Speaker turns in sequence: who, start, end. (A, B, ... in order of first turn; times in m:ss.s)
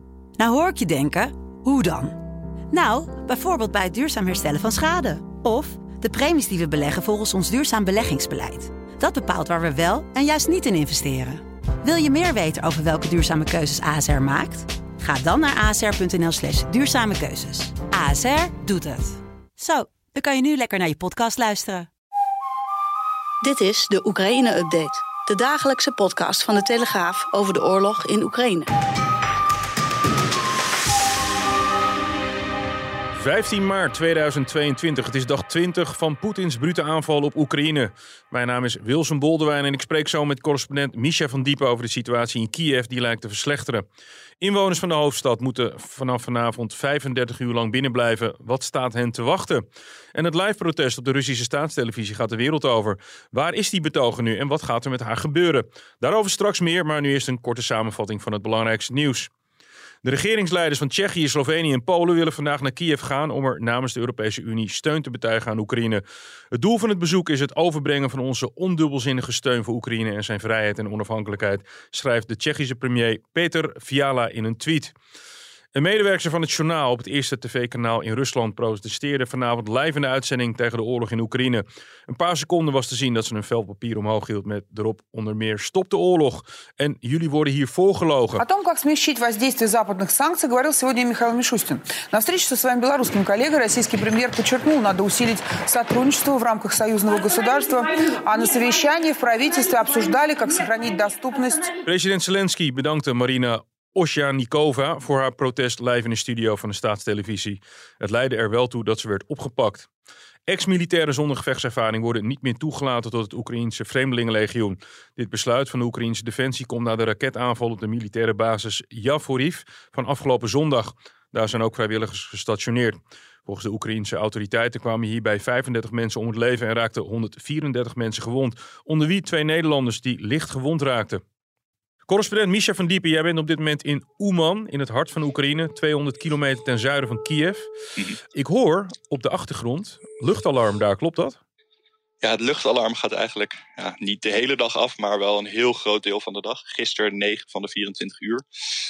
0:00.4-0:02.2 A
0:02.7-0:21.9 A
0:23.4-0:28.7 B
0:33.1-0:43.8 C
0:44.4-0:59.3 C
1:00.0-1:14.9 C
1:15.7-1:28.4 C
1:28.4-1:41.7 D
1:41.8-1:49.9 C
1:50.5-2:11.2 C
2:12.1-2:17.7 C
2:18.3-2:21.4 C
2:22.2-2:28.4 E